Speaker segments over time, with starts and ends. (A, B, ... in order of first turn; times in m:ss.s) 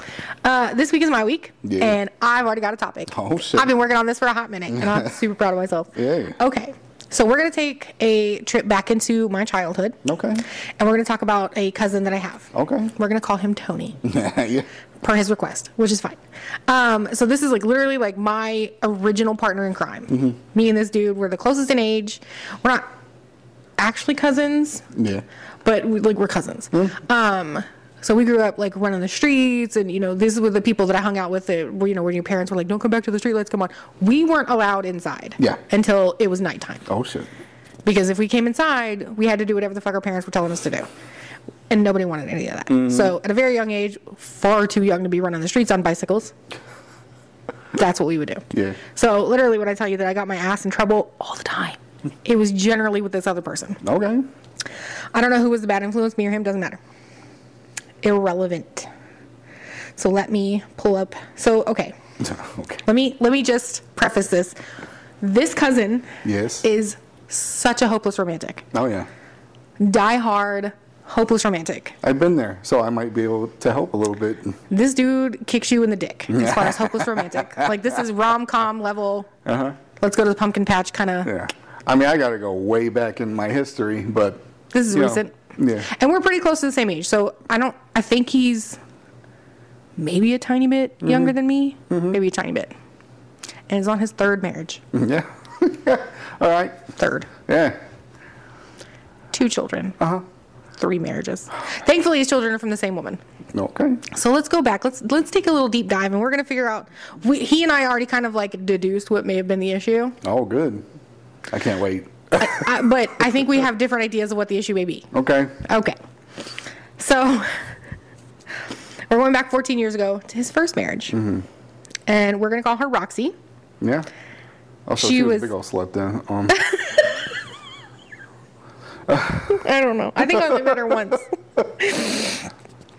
0:00.4-0:10.0 A
0:01.6-0:02.0 B
0:03.1-0:03.7 B
0:04.7-0:05.2 B
0:06.0-0:06.4 B
0:10.0-0:10.4 B
0:10.8-0:14.0 A
0:12.5-0:12.9 B
0:14.0-0:14.7 B
0:15.0-0:22.9 A
0:20.1-0:20.4 B
0:23.8-0:24.9 A
0:24.9-0:25.2 B
0:25.6-0:36.9 A
0:36.9-0:37.3 B
0:37.8-0:40.9 A
0:41.7-0:46.3 A
0:42.7-0:43.2 B
0:47.7-0:53.8 A
0:48.5-0:48.8 B
0:53.8-0:54.3 B
0:55.1-0:56.8 A
0:58.0-0:58.9 A
1:00.0-1:02.0 A
1:02.2-1:02.8 B
1:02.8-1:04.6 A
1:05.2-1:08.7 A
1:06.2-1:06.6 B
1:08.7-1:09.1 B
1:09.8-1:12.0 A
1:12.0-1:14.6 B
1:14.7-1:19.3 A
1:16.3-1:17.8 B
1:19.4-1:19.8 B
1:20.0-1:21.3 A
1:21.2-1:25.9 B
1:24.7-1:28.8 A
1:30.0-1:32.7 A
1:31.0-1:31.3 B
1:31.9-1:32.2 B
1:33.7-1:34.8 A
1:34.9-1:36.8 B
1:37.0-1:37.3 A
1:37.5-1:37.8 B
1:39.3-1:40.0 A
1:40.0-1:40.2 B
1:40.8-1:43.2 A
1:43.5-1:44.0 B
1:44.1-1:50.2 A
1:50.2-1:50.8 B
1:51.5-1:52.7 B
1:52.4-1:55.1 A
1:55.1-1:55.6 B
1:55.6-1:56.0 A
1:57.0-1:57.6 A
1:59.1-2:01.2 A
2:01.1-2:01.5 B
2:02.1-2:03.3 A
2:03.8-2:04.1 B
2:04.9-2:06.6 B
2:05.0-2:05.5 A
2:06.5-2:07.2 A
2:09.1-2:09.6 B
2:09.5-2:12.5 A
2:10.2-2:11.1 B